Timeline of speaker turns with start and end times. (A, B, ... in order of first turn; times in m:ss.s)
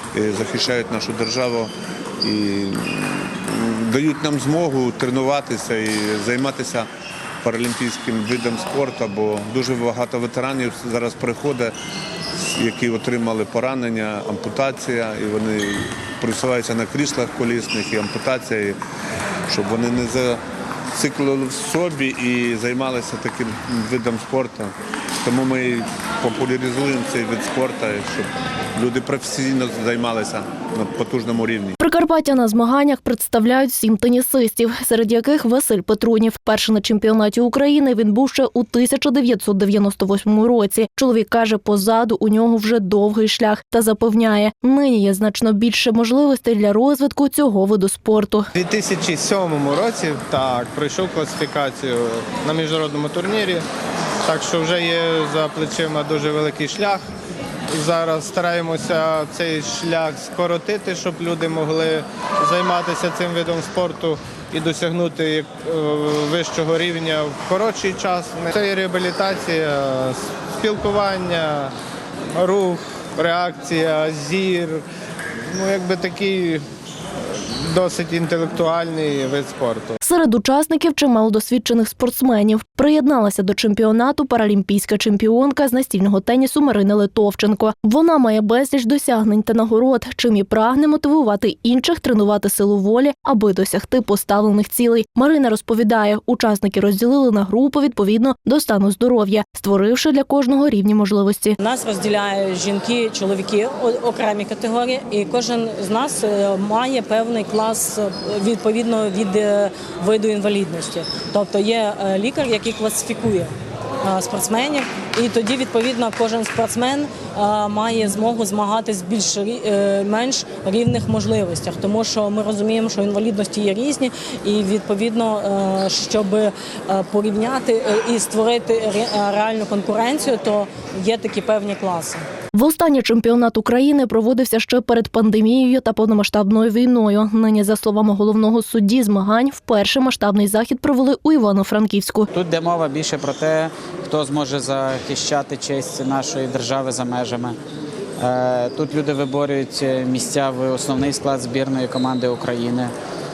0:00.1-0:06.9 A
0:07.4-0:11.7 A
0:12.4-0:18.8 A
0:19.5-0:20.4 A
0:21.0-0:31.8 A
0:31.8-0:48.5 B
0:48.6-0:53.6 C
0:54.2-0:57.0 C
0:57.7-1:11.7 C
1:12.4-1:14.8 C
1:15.5-1:16.6 C
1:17.6-1:20.0 C
1:20.0-1:41.6 B
1:41.6-2:12.2 D
2:12.6-2:22.3 B
2:22.3-2:27.6 E
2:28.2-2:32.9 E